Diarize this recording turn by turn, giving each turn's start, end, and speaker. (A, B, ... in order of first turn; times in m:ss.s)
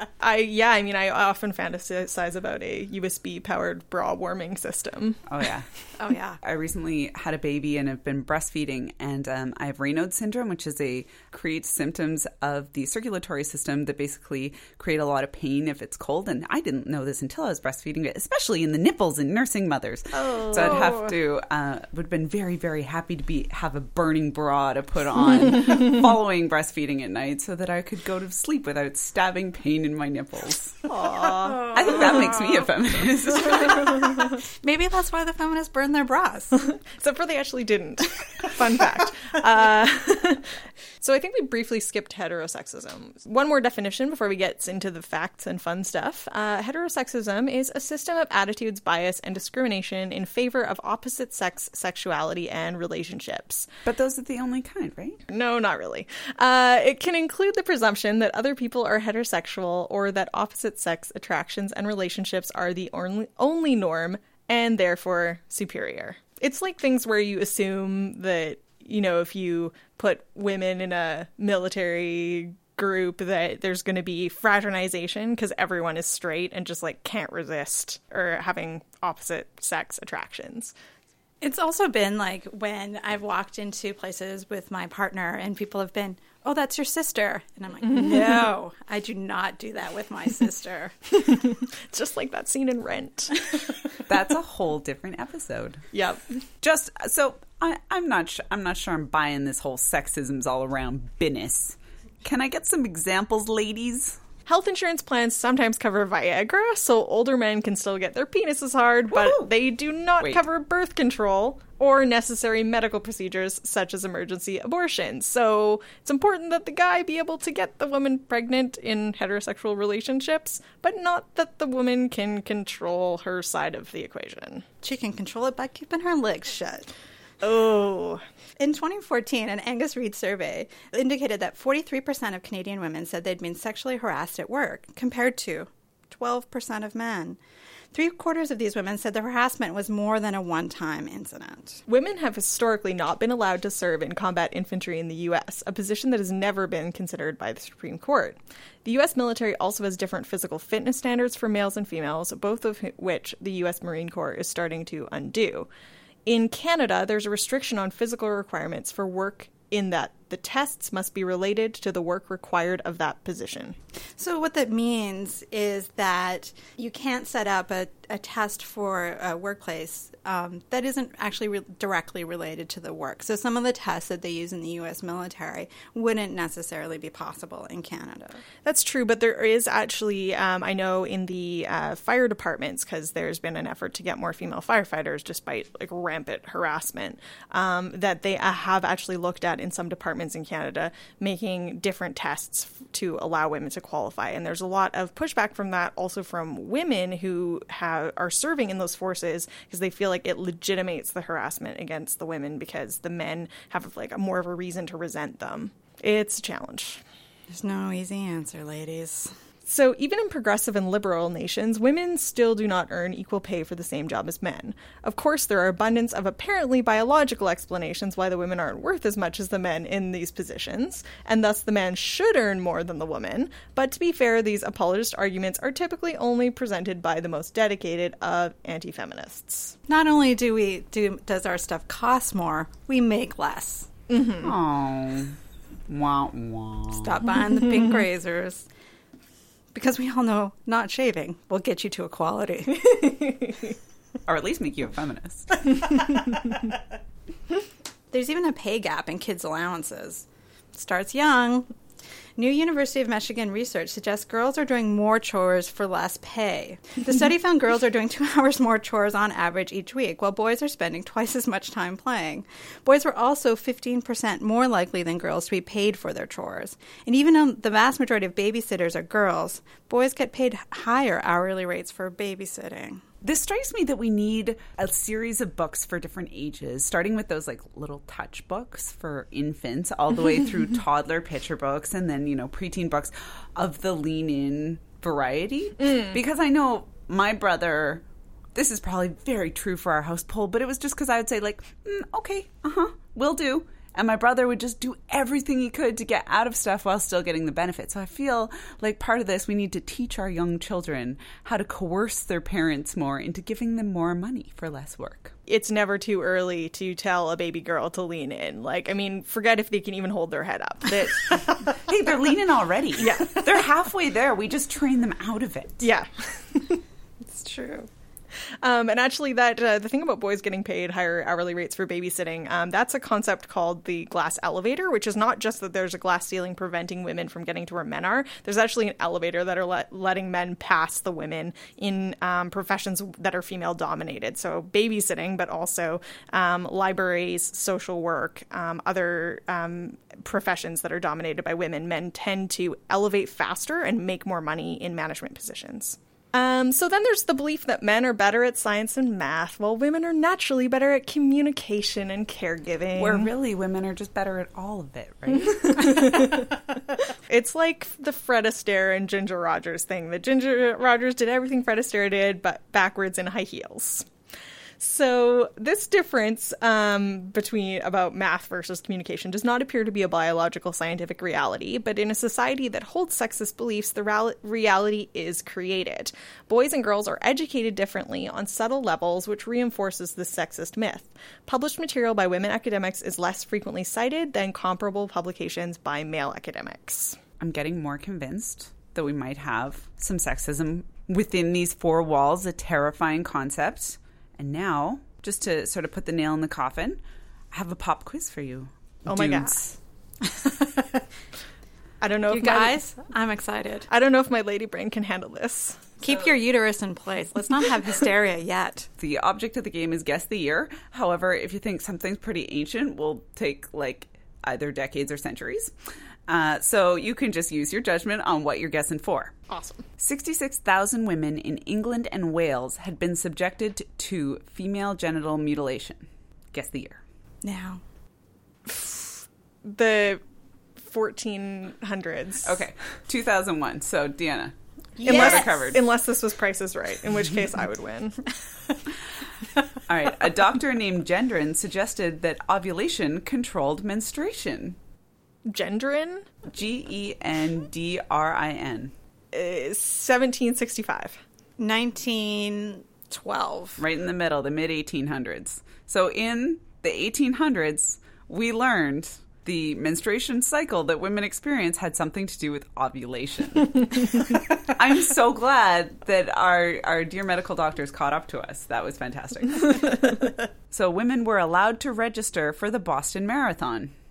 0:00.2-0:05.2 A
0:05.3-0:05.7 B
0:06.0-0:06.4 C
0:06.4-0:30.8 B
0:20.2-0:21.0 A
0:30.9-0:32.0 A
0:31.4-0:32.4 C
0:31.7-0:34.1 B
0:34.6-0:36.6 C
0:36.8-0:53.6 A
0:53.8-0:55.2 B
0:55.3-1:20.7 A
1:21.4-1:30.9 C
1:27.9-1:28.4 A
1:31.2-1:33.7 A
1:34.1-1:35.9 B
1:35.9-1:36.3 A
1:36.6-1:44.2 B
1:44.4-2:04.6 A
1:49.1-1:49.5 B
2:04.8-2:06.9 C
2:07.4-2:08.2 A
2:08.6-2:17.4 C
2:17.9-2:21.8 C
2:21.9-2:35.7 A
2:36.2-2:43.8 A
2:44.2-2:58.4 C
2:58.6-3:27.0 A
3:27.5-3:29.4 C
3:29.6-3:49.8 A
3:49.9-3:53.9 C
3:54.1-3:54.5 A
3:54.4-3:55.4 B
3:55.9-3:57.1 B
3:56.9-3:58.7 C
3:59.7-4:03.1 C
4:04.2-4:05.9 B
4:08.1-4:11.7 C
4:12.4-4:33.0 C
4:33.2-4:48.0 B
4:48.5-5:05.3 B
5:05.5-5:11.7 A
5:11.6-5:15.8 B
5:13.0-5:13.6 A
5:15.8-5:16.8 A
5:17.3-5:17.9 C
5:18.6-5:53.3 A
5:53.0-5:56.2 B
5:55.3-5:56.5 A
5:57.3-6:04.1 A
6:04.8-6:27.2 A
6:27.4-6:37.0 B
6:37.5-6:39.8 B
6:39.1-6:39.6 A
6:42.0-6:42.8 A
6:42.3-6:43.9 C
6:43.9-6:45.9 A
6:46.0-6:48.9 C
6:49.0-6:55.7 B
6:56.3-6:59.3 B
6:59.5-6:59.8 A
7:00.0-7:07.0 B
7:07.4-7:07.8 C
7:08.6-7:10.2 A
7:10.8-7:12.6 A
7:12.4-7:15.8 B
7:15.0-7:15.7 C
7:15.0-7:18.3 A
7:19.9-7:24.8 B
7:25.4-7:26.3 A
7:26.5-7:28.9 B
7:29.3-7:31.2 A
7:31.6-7:33.8 C
7:33.8-7:53.9 B